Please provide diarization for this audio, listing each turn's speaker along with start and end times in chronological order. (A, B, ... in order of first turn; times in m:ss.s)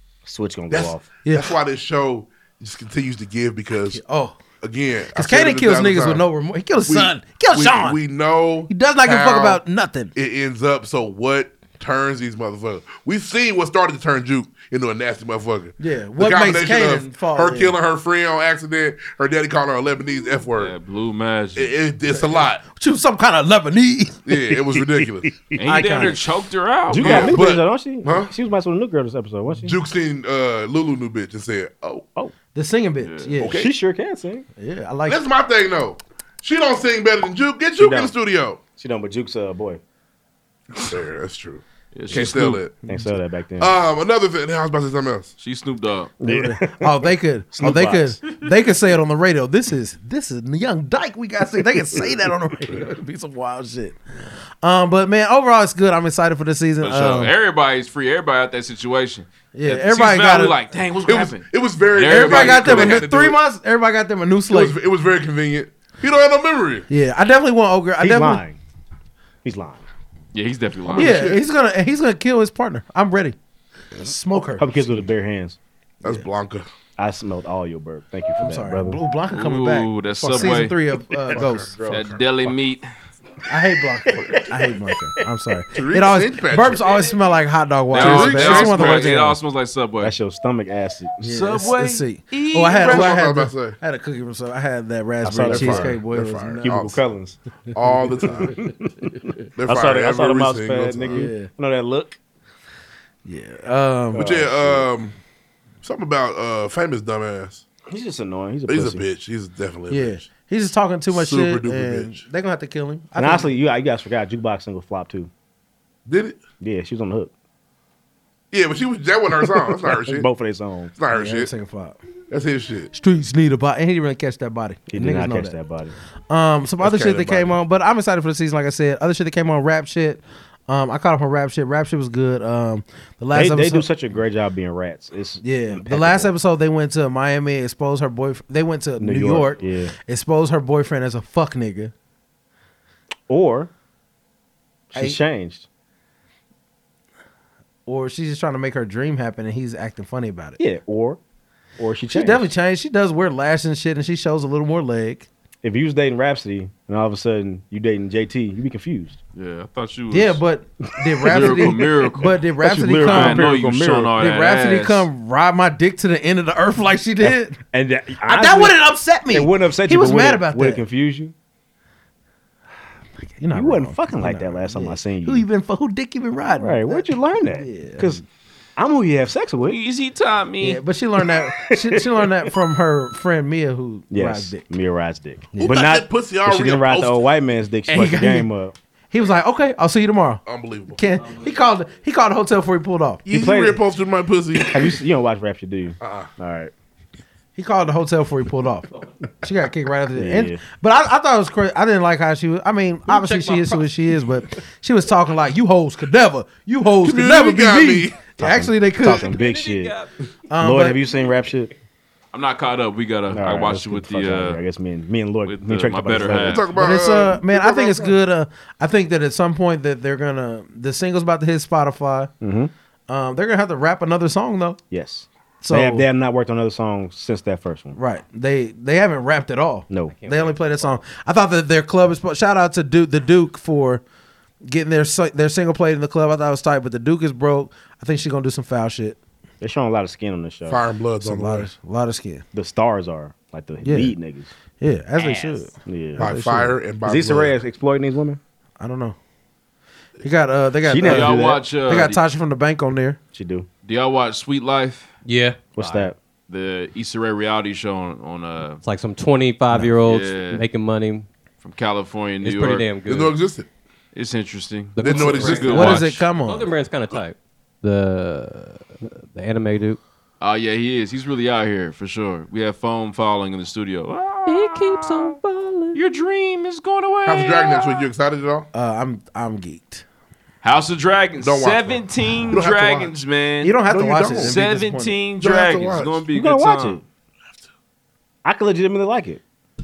0:00.2-0:01.1 A
0:00.7-0:04.0 B
0:01.2-0:01.5 C
0:03.9-0:04.4 C
0:04.6-0:06.2 B
0:05.1-0:08.0 C
0:06.9-0:09.6 B
0:08.7-0:10.1 C
0:10.1-0:20.7 B
0:15.8-0:17.8 C
0:20.5-0:21.7 D
0:21.6-0:22.6 B
0:22.1-0:24.2 C
0:24.2-0:25.3 B
0:25.0-0:25.9 A
0:25.6-0:27.3 D
0:25.6-0:26.2 C
0:26.9-0:29.8 A
0:27.0-0:28.3 B
0:29.6-0:32.0 B
0:32.5-0:33.6 C
0:33.0-0:33.3 D
0:33.4-0:33.7 B
0:33.4-0:34.4 A
0:34.6-0:35.2 C
0:35.1-0:38.6 B
0:37.8-0:38.1 A
0:38.8-0:39.8 A
0:40.7-0:42.7 B
0:41.9-0:42.6 D
0:42.8-0:43.7 A
0:43.6-0:45.3 B
0:45.4-0:46.1 D
0:46.2-0:48.2 A
0:46.2-0:54.0 C
0:54.6-0:57.3 C
0:56.8-1:03.0 D
0:59.5-1:00.6 C
1:01.1-1:03.4 B
1:02.0-1:04.8 C
1:04.5-1:06.9 B
1:06.9-1:08.4 C
1:08.0-1:08.6 A
1:09.4-1:09.8 A
1:10.3-1:11.3 D
1:10.9-1:11.4 B
1:10.9-1:13.4 C
1:13.9-1:14.8 C
1:14.6-1:15.6 A
1:16.0-1:16.7 B
1:17.0-1:19.0 A
1:18.4-1:21.8 C
1:19.3-1:20.8 D
1:21.3-1:22.2 B
1:21.9-1:22.9 D
1:23.5-1:29.4 C
1:24.0-1:25.0 A
1:25.7-1:26.9 B
1:27.9-1:30.1 D
1:27.9-1:29.0 B
1:30.0-1:31.4 A
1:31.2-1:33.2 D
1:31.2-1:36.7 C
1:32.8-1:33.8 B
1:35.2-1:36.0 A
1:35.2-1:37.0 B
1:36.6-1:37.4 A
1:37.7-1:38.5 B
1:38.2-1:38.6 C
1:38.5-1:38.7 A
1:39.6-1:41.3 B
1:39.6-1:42.2 A
1:41.1-1:41.5 C
1:43.2-1:44.8 C
1:44.1-1:44.5 A
1:44.1-1:45.2 B
1:45.8-1:47.6 B
1:47.9-1:49.0 A
1:48.7-1:50.2 B
1:49.9-1:53.5 C
1:51.1-1:52.2 B
1:53.2-1:55.3 A
1:56.0-1:56.4 B
1:56.6-1:57.3 A
1:58.5-2:00.3 B
1:59.8-2:00.9 A
2:01.0-2:01.5 B
2:01.1-2:02.0 C
2:02.3-2:02.9 B
2:02.9-2:05.5 C
2:04.9-2:06.0 A
2:06.3-2:13.8 C
2:06.8-2:07.5 B
2:13.3-2:16.3 A
2:15.4-2:21.9 C
2:19.0-2:19.9 A
2:23.3-2:23.7 A
2:24.9-2:25.6 A
2:27.8-2:30.6 C
2:30.6-2:31.2 A
2:31.8-2:32.5 A
2:32.1-2:35.3 C
2:35.6-2:39.2 A
2:39.3-2:40.4 D
2:40.1-2:43.5 C
2:41.1-2:44.2 A
2:41.3-2:42.3 D
2:43.0-2:45.1 D
2:44.2-2:47.6 C
2:47.2-2:51.3 A
2:48.2-2:50.8 C
2:53.4-2:58.2 C
2:53.5-2:55.4 A
2:56.6-2:58.2 A
2:58.8-2:59.8 A
2:59.6-3:00.8 D
3:00.6-3:04.6 C
3:01.3-3:02.5 A
3:04.1-3:08.7 A
3:05.6-3:07.2 B
3:07.9-3:08.5 C
3:09.1-3:10.4 C
3:10.4-3:11.0 B
3:10.9-3:13.2 C
3:11.2-3:11.6 E
3:13.2-3:15.0 B
3:13.3-3:13.8 A
3:14.7-3:16.7 A
3:16.0-3:16.3 B
3:17.6-3:18.9 C
3:19.4-3:29.3 C
3:20.1-3:20.6 A
3:23.1-3:23.9 E
3:27.0-3:28.2 B
3:28.4-3:30.0 A
3:29.2-3:30.1 E
3:30.5-3:31.0 C
3:30.6-3:31.7 A
3:32.3-3:34.6 D
3:33.3-3:36.6 A
3:35.4-3:36.7 D
3:36.4-3:38.1 B
3:36.8-3:42.3 C
3:42.4-3:42.7 A
3:43.1-3:44.8 C
3:44.9-3:48.0 A
3:45.6-3:46.1 C
3:47.9-3:54.0 C
3:49.9-3:50.2 A
3:50.0-3:50.9 E
3:54.6-3:59.2 C
3:59.6-4:00.8 A
4:00.7-4:01.7 B
4:01.2-4:02.4 C
4:02.5-4:04.5 A
4:03.8-4:04.1 C
4:04.8-4:06.8 C
4:05.8-4:06.3 A
4:06.2-4:07.6 B
4:07.0-4:08.4 A
4:08.8-4:09.2 C
4:10.2-4:13.2 C
4:10.8-4:11.6 A
4:11.0-4:12.2 D
4:13.3-4:13.7 A
4:13.8-4:15.1 D
4:15.2-4:16.1 E
4:15.8-4:16.2 A
4:16.5-4:18.8 D
4:18.8-4:21.3 E
4:20.0-4:20.6 D
4:21.6-4:22.8 D
4:22.4-4:23.3 E
4:23.0-4:23.7 B
4:24.1-4:26.2 D
4:25.0-4:30.0 E
4:25.0-4:25.9 B
4:25.7-4:26.7 C
4:30.4-4:35.3 D
4:34.4-4:36.0 E
4:35.9-4:38.1 D
4:37.2-4:38.7 B
4:38.7-4:40.0 C
4:40.6-4:47.0 D
4:41.4-4:43.2 B
4:43.6-4:45.2 C
4:43.9-4:44.6 B
4:45.4-4:46.2 B
4:46.3-4:47.0 A
4:48.4-4:49.4 A